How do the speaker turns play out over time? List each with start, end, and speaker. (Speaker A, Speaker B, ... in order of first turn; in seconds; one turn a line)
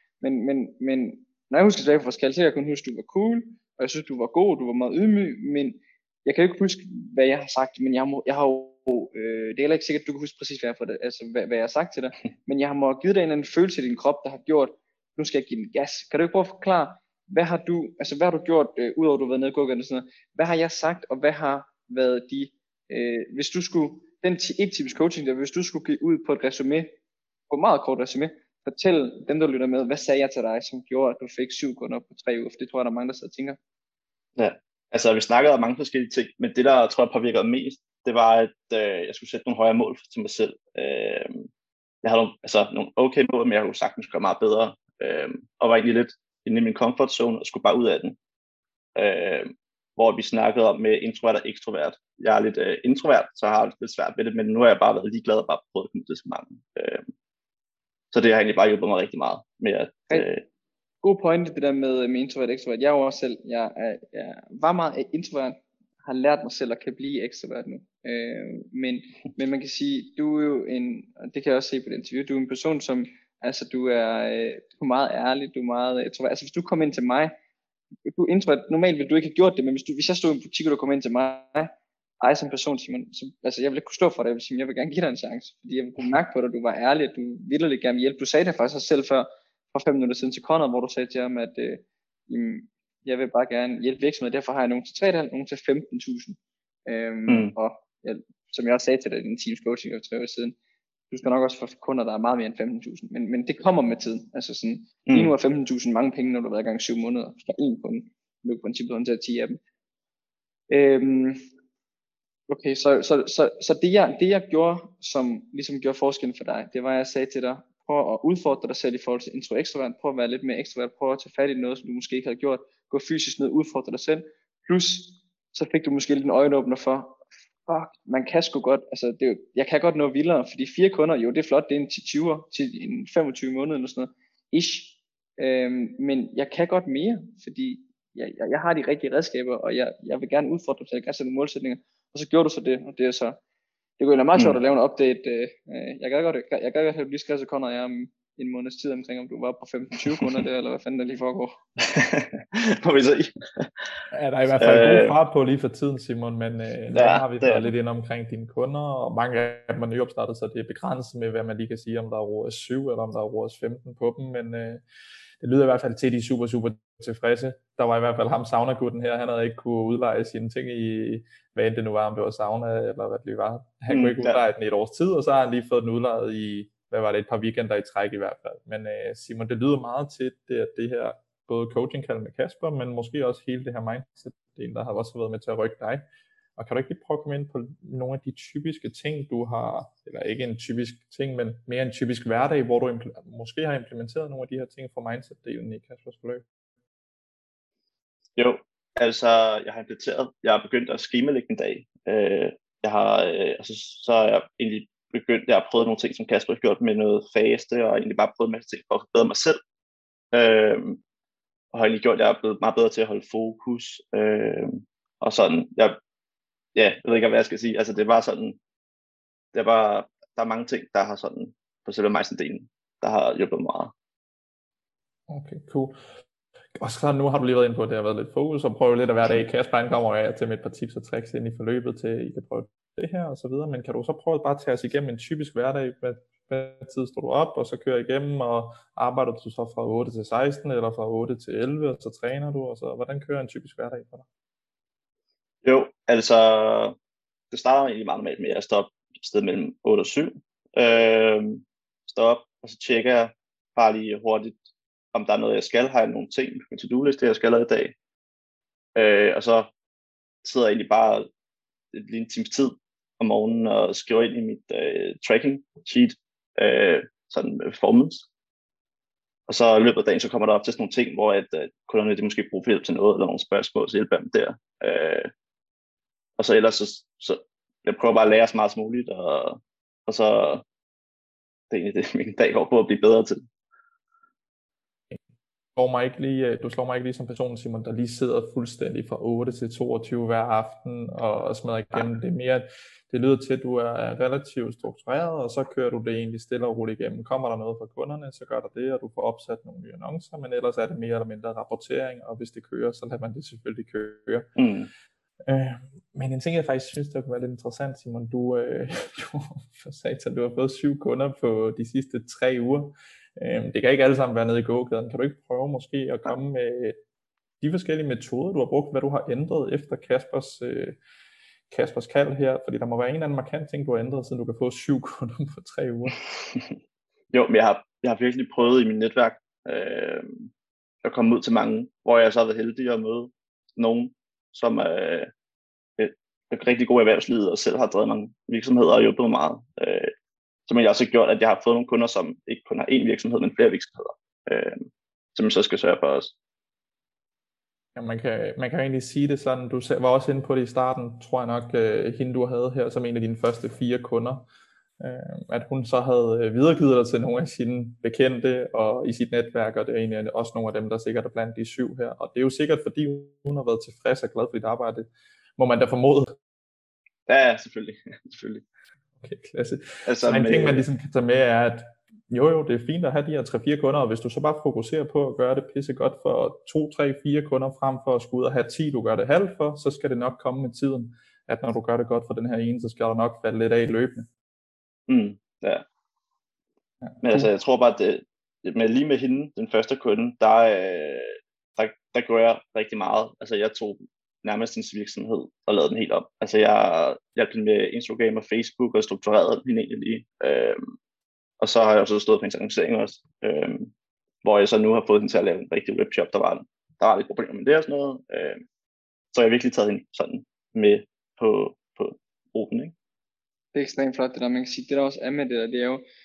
Speaker A: 0.2-26.9
Speaker A: 27.5-33.6
Speaker B: 34.4-41.5
Speaker B: 42.0-48.2
Speaker B: 49.0-57.0
Speaker B: 58.1-60.4
Speaker A: 61.0-77.3
Speaker A: 78.0-100.5
Speaker B: 97.3-97.5
Speaker A: 101.1-109.6
Speaker B: 105.1-105.3
Speaker A: 110.7-111.4
Speaker A: 112.5-143.4
Speaker A: 144.0-151.6
Speaker B: 151.8-153.9
Speaker C: 154.1-164.8
Speaker B: 154.6-155.2
Speaker B: 156.9-157.7
Speaker C: 165.4-186.1
Speaker B: 173.9-174.4
Speaker C: 186.6-196.4
Speaker B: 198.4-209.6
Speaker B: 210.3-211.0
Speaker B: 211.7-216.0
Speaker B: 216.8-218.6
Speaker B: 219.5-223.9
Speaker C: 225.3-226.0
Speaker C: 226.8-244.2
Speaker B: 245.6-246.9
Speaker B: 247.5-254.6
Speaker B: 255.1-257.9
Speaker B: 259.0-259.7
Speaker B: 260.4-261.3
Speaker B: 261.9-268.3
Speaker B: 269.5-275.3
Speaker B: 276.4-280.6
Speaker B: 281.7-283.4
Speaker C: 285.8-304.5
Speaker B: 304.6-304.9
Speaker C: 305.5-317.0
Speaker C: 317.6-321.0
Speaker C: 321.7-326.2
Speaker B: 327.3-330.5
Speaker B: 331.0-335.3
Speaker B: 336.0-340.1
Speaker B: 340.7-346.3
Speaker C: 348.0-354.4
Speaker C: 355.0-366.4
Speaker B: 367.3-368.6
Speaker C: 369.2-384.3
Speaker B: 370.0-370.8
Speaker B: 385.1-385.9
Speaker C: 387.2-387.5
Speaker B: 387.2-400.8
Speaker B: 401.6-403.9
Speaker B: 404.4-408.6
Speaker B: 409.3-412.9
Speaker A: 413.7-416.0